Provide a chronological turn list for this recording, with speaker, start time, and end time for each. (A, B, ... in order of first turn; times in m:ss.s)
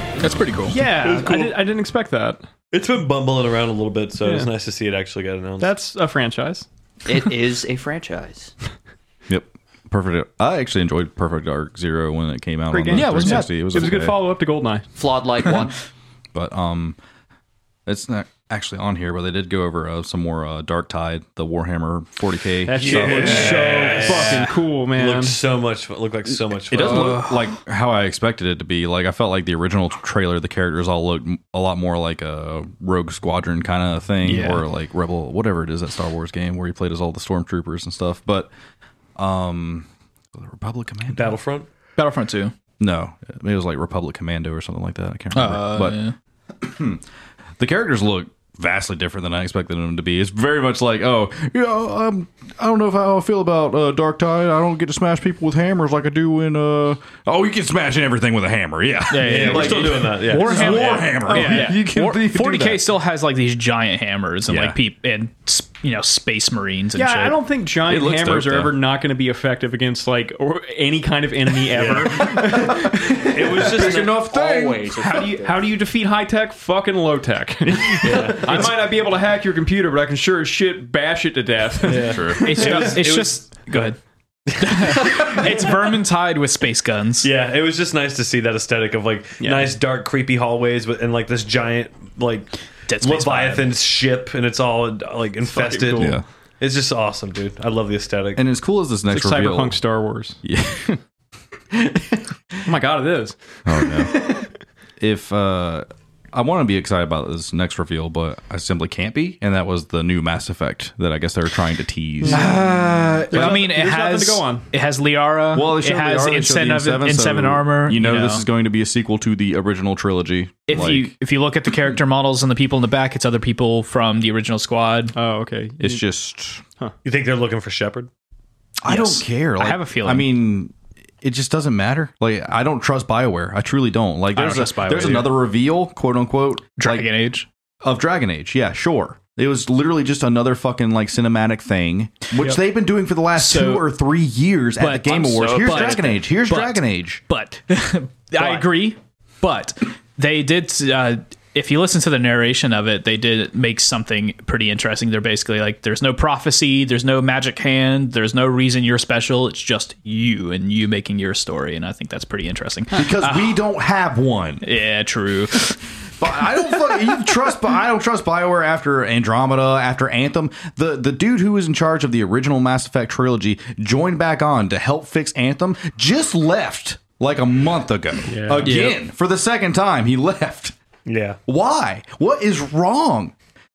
0:00.2-0:00.8 A
0:00.2-0:00.5 B
0:00.7-0:02.4 C
0:00.9-0:01.6 D
0:02.7-0:05.7 D
0:04.2-0:04.5 C
0:05.6-0:06.6 C
0:07.1-0:08.5 E
0:09.3-0:14.2 B
0:12.7-0:14.9 C
0:12.9-0:13.5 A
0:15.0-0:15.8 E
0:16.3-0:17.0 B
0:17.9-0:24.4 B
0:22.6-0:25.4 C
0:22.7-0:27.2 D
0:26.7-0:38.5 B
0:26.8-0:27.4 A
0:34.2-0:34.6 A
0:39.2-0:41.3 B
0:41.1-0:41.7 D
0:42.0-0:42.5 A
0:42.8-0:46.0 B
0:45.3-0:46.1 A
0:46.6-0:47.0 B
0:47.6-1:02.8 B
0:59.1-1:07.4 A
0:59.2-1:01.0 D
1:00.7-1:01.8 C
1:04.5-1:04.8 B
1:07.0-1:13.9 C
1:07.8-1:08.8 B
1:11.7-1:14.2 D
1:12.2-1:13.2 B
1:13.7-1:15.0 B
1:13.8-1:15.6 E
1:15.0-1:23.1 C
1:18.0-1:18.7 D
1:21.8-1:23.9 D
1:22.0-1:22.5 B
1:22.4-1:24.0 A
1:24.5-1:25.6 D
1:24.6-1:27.3 A
1:27.2-1:38.4 D
1:29.4-1:29.7 C
1:32.9-1:33.7 A
1:35.5-1:36.2 C
1:36.0-1:36.2 B
1:38.4-1:39.8 B
1:39.1-1:40.4 C
1:40.4-1:41.0 B
1:42.6-1:44.5 C
1:43.7-1:44.3 B
1:45.0-1:53.6 B
1:52.2-1:52.7 C
1:52.3-1:58.4 A
1:53.3-1:54.7 C
1:55.5-2:01.1 B
2:00.7-2:05.2 A
2:05.2-2:06.0 C
2:05.8-2:06.6 B
2:07.0-2:08.1 D
2:08.8-2:17.1 B
2:08.9-2:10.3 A
2:14.3-2:15.4 A
2:16.8-2:17.5 A
2:17.8-2:27.2 B
2:23.4-2:23.9 A
2:24.8-2:43.6 A
2:25.2-2:26.2 E
2:42.9-2:44.6 B
2:44.6-2:45.8 A
2:46.2-3:00.8 B
2:58.3-2:58.7 D
2:58.4-2:58.7 C
2:58.6-2:59.0 A
3:01.1-3:01.4 D
3:01.5-3:03.3 B